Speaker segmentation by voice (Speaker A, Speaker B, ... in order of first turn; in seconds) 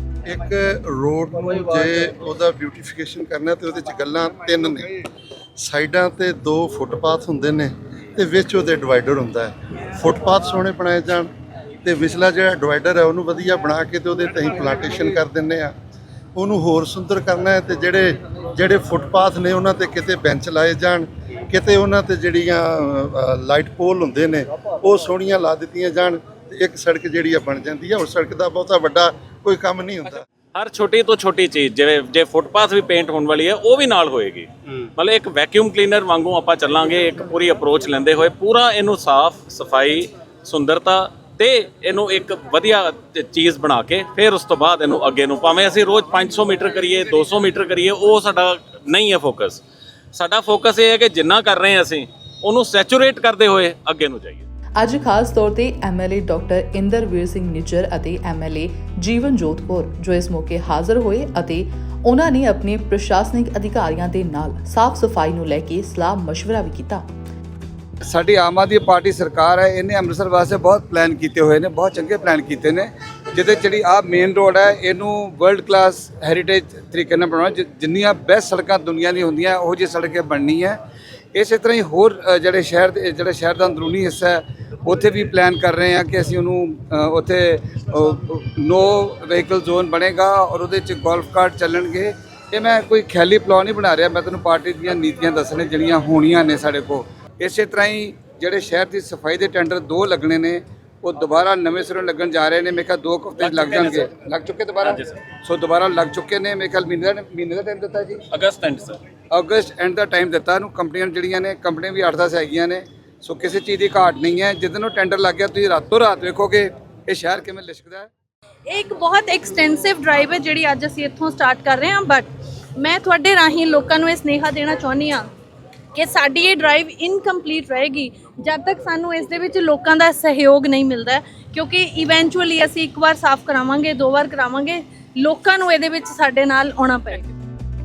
Speaker A: 0.2-5.0, 5.6-11.3, 11.8-15.7, 16.4-30.2
Speaker B: 30.5-49.6, 50.1-54.4, 103.4-104.1, 104.8-105.1, 108.3-109.0
Speaker C: 54.8-67.1
Speaker D: 68.1-80.8, 81.3-108.2, 109.3-118.1
Speaker E: 118.7-122.3, 122.8-125.2, 126.0-137.3